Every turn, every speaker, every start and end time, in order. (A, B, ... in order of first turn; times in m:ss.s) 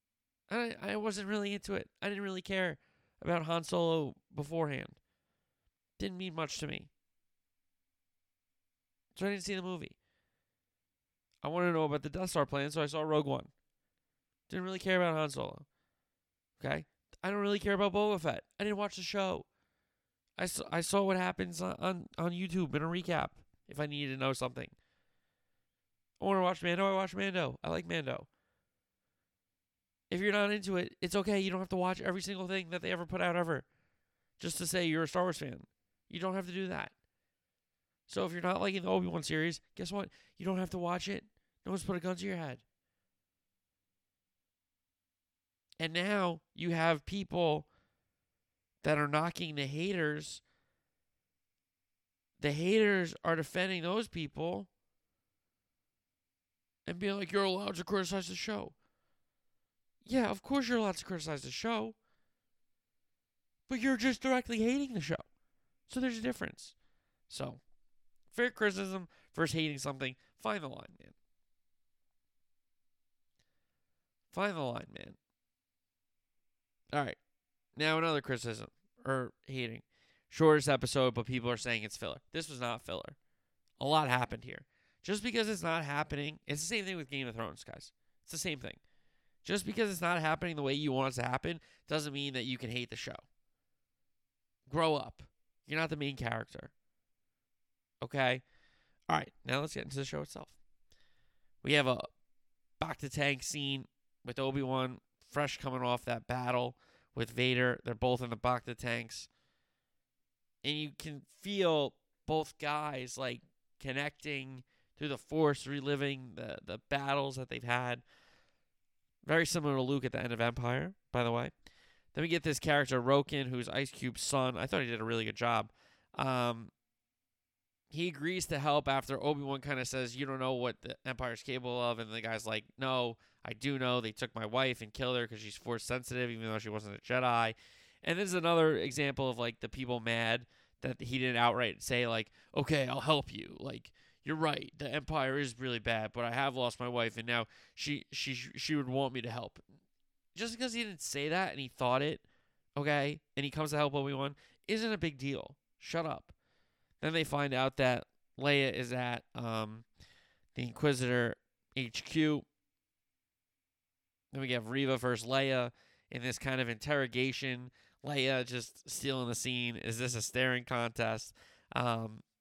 0:00.5-0:05.0 A
0:06.0-0:06.9 A
0:09.1-0:10.0 A
0:11.4-0:13.5 A
0:14.5-0:15.6 A
0:16.6-0:19.5 A
0:20.4-0:24.7 A
0:26.2-0:28.3 A
0:30.1-0:33.6 A
0:34.4-0:36.9 A
0:38.1-0:42.6 A
0:45.8-0:47.7 A
0:48.8-0:50.4 A
0:52.4-0:54.7 A
0:56.8-0:58.7 A
1:00.0-1:02.0 A
1:03.7-1:05.2 A
1:05.9-1:06.7 A
1:07.3-1:07.6 A
1:08.3-1:11.1 A
1:14.3-1:15.2 A
1:17.8-1:23.2 A
1:23.8-1:28.8 A
1:29.4-1:33.2 A
1:34.7-1:36.7 A
1:38.0-1:38.4 A
1:39.1-1:40.6 A
1:41.6-1:42.1 A
1:42.8-1:49.3 A
1:50.6-1:58.0 A
1:59.2-2:01.5 A
2:02.1-2:06.7 A
2:07.9-2:29.6 A
2:30.3-2:32.2 A
2:32.8-2:36.3 A
2:37.0-2:39.8 A
2:40.5-2:42.4 A
2:44.3-2:52.2 A